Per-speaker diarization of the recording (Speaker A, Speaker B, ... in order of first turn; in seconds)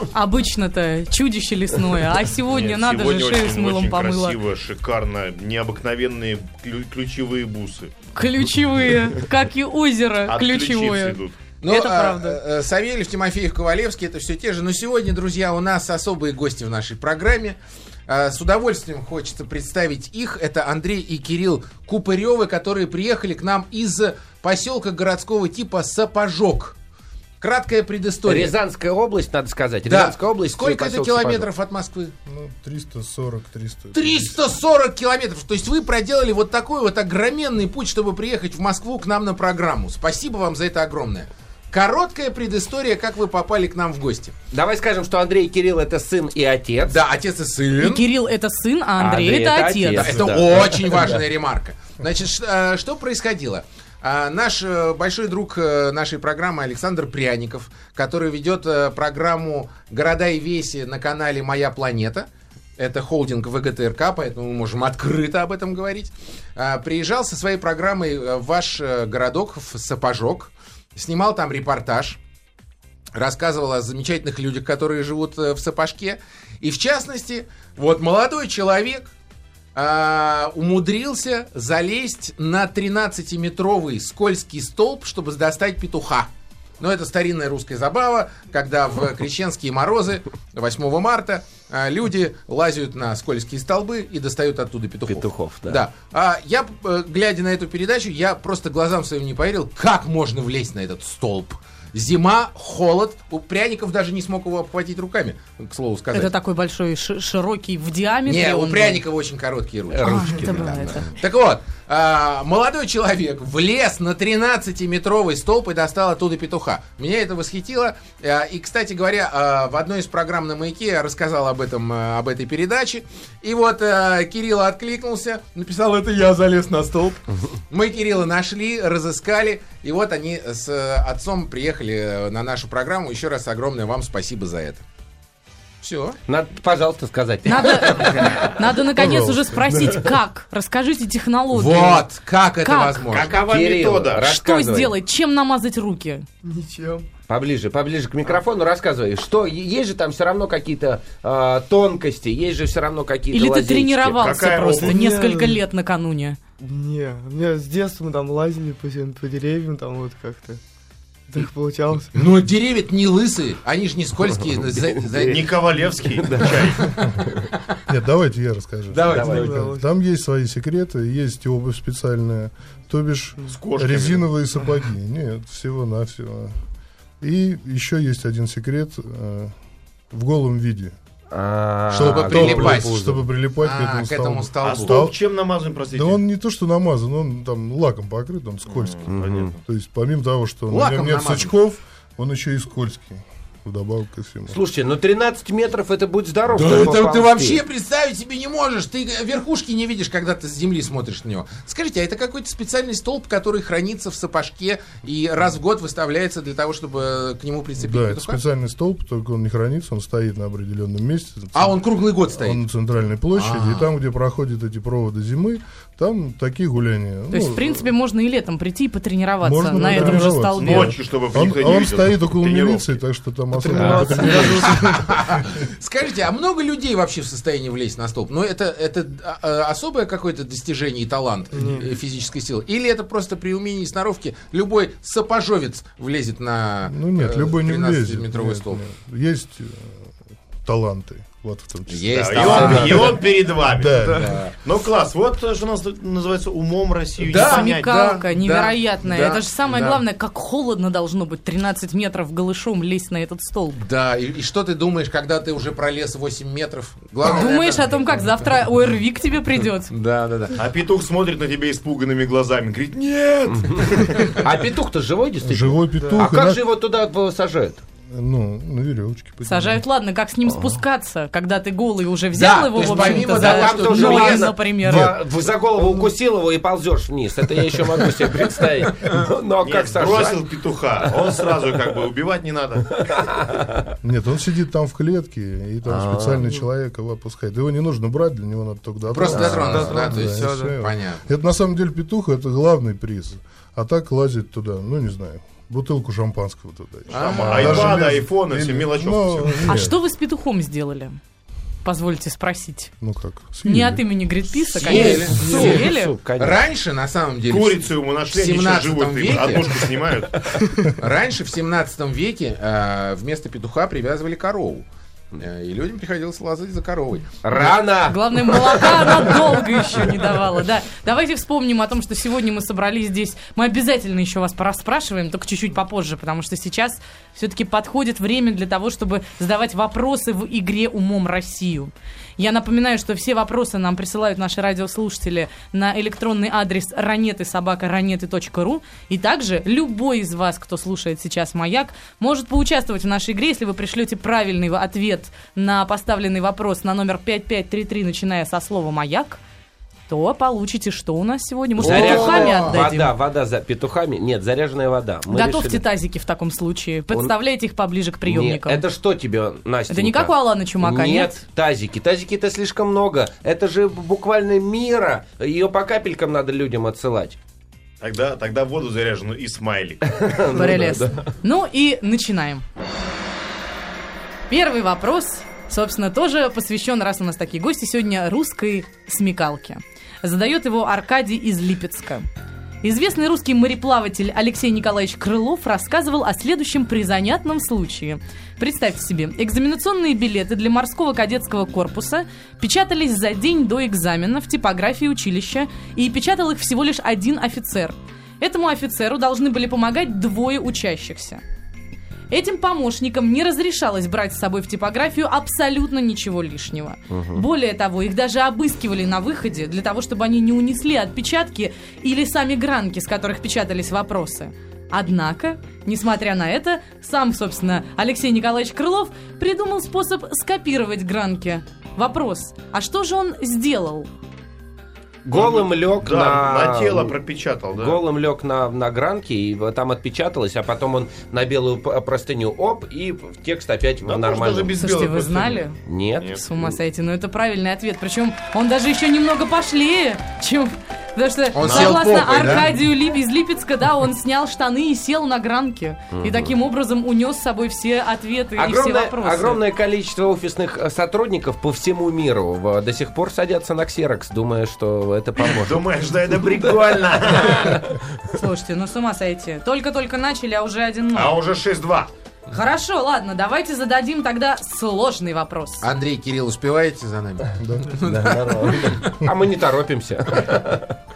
Speaker A: 0.1-4.4, 8.2-12.4, 47.8-50.3, 106.1-109.0, 110.0-111.1, 137.5-142.1, 142.6-143.3, 144.2-146.3, 153.3-156.4, 217.3-220.9, 247.3-253.8, 257.2-259.9, 269.4-275.1, 299.7-301.2, 301.8-302.9, 303.6-306.1, 318.0-349.4, 350.1-353.1, 355.3-358.8, 359.9-361.4, 370.5-372.6, 374.5-382.3, 382.8-401.4, 402.3-424.1, 434.8-449.6, 458.3-461.4, 462.5-465.9
Speaker B: 2.4-8.0, 10.3-11.4, 143.1-144.3, 154.2-154.9, 165.2-166.9, 173.5-174.3, 184.6-186.2, 188.7-189.6, 219.9-223.0, 223.8-224.3, 242.2-244.0, 244.6-248.0, 260.6-264.5, 279.6-283.1, 297.1-299.8, 307.5-310.5, 368.0-370.4, 425.3-428.0, 434.1-435.7, 441.6-442.6, 455.4-458.0, 461.1-462.1
Speaker C: 11.6-26.8, 27.4-28.5, 29.9-32.1, 33.9-44.4, 46.9-48.1, 50.0-72.2, 73.2-79.1, 79.8-106.3, 108.3-134.8, 135.8-136.2, 141.5-143.4, 162.1-165.6, 166.4-167.3, 168.9-169.7, 181.9-185.1, 190.7-191.5, 196.5-208.4, 211.5-212.6, 213.3-213.9, 223.8-238.8, 241.9-243.2, 244.0-244.6, 247.2-250.0, 253.8-258.5, 259.9-260.6, 272.3-274.6, 289.1-291.2, 297.1-298.1, 304.8-309.9, 311.0-317.8, 351.8-352.9, 441.6-442.7, 465.8-469.1
Speaker D: 28.3-31.5, 44.5-47.0, 49.0-51.2, 95.1-95.9, 109.9-111.1, 136.3-138.5, 143.5-144.9, 147.3-154.2, 164.7-165.4, 166.2-166.7, 169.1-169.5, 181.3-183.2, 189.1-189.6, 194.5-197.6, 263.5-267.8, 270.5-270.8, 272.8-280.5, 283.0-283.9, 285.9-286.3, 304.8-306.6, 317.4-319.5, 351.8-355.8, 358.2-367.4, 370.1-371.3, 407.1-407.4, 425.2-427.1, 427.8-434.8, 435.9-436.8, 446.1-446.5, 448.6-455.9, 456.6-458.0, 468.1-471.0
Speaker E: 32.3-34.4, 138.9-140.1, 167.9-176.6, 177.2-179.5, 180.1-181.0, 181.9-185.2, 185.9-194.6, 207.8-211.8, 212.3-217.9, 219.4-225.1, 236.9-244.3, 265.4-266.6, 268.1-269.8, 274.8-275.2, 284.0-300.0, 303.0-304.6, 467.6-468.4
Speaker F: 146.4-147.1, 154.7-155.6, 156.6-160.6, 161.3-162.1, 169.2-169.9, 223.6-225.0, 231.5-231.9, 289.2-290.8